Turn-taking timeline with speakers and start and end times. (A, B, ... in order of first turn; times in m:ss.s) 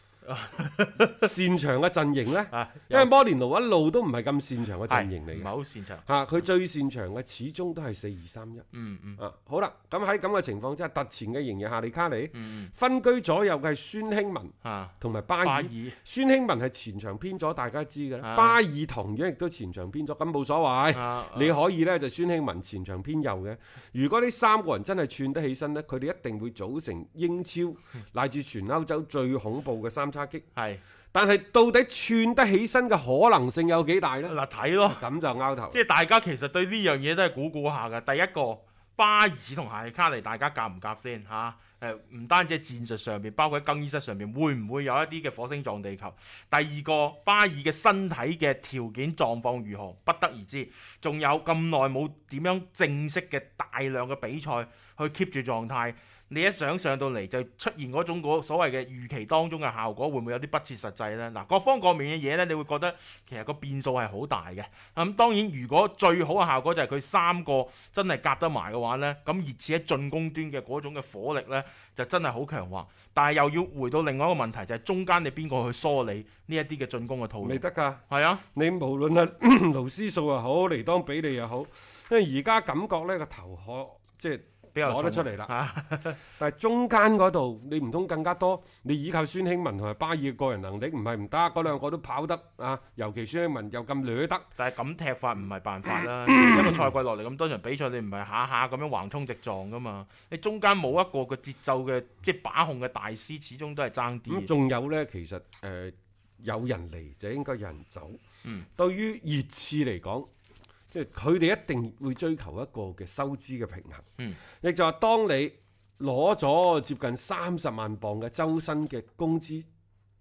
0:00.2-0:01.3 A
0:01.2-0:05.5 B
0:02.5-0:03.1 A
0:04.9-0:06.0 A
0:06.0-0:08.6 B
0:08.7-0:09.2 A
0:09.2-0:30.4 B
0:12.3-0:12.7 A
0:14.6-0:16.0 A
0:18.2-0:18.6 A
0:20.9-0:21.6 A
0:30.6-0:30.8 A
0:31.1-0:35.8 B
0:34.3-0:35.0 A
0:35.7-1:18.4 A
1:17.4-1:18.0 B
1:18.6-1:25.5 B
1:24.7-1:26.2 A
1:26.4-1:34.5 B
1:34.6-1:44.5 A
1:36.3-1:36.9 B
1:44.3-1:48.2 B
1:48.8-1:50.3 B
1:50.9-1:54.0 B
1:54.6-1:59.7 B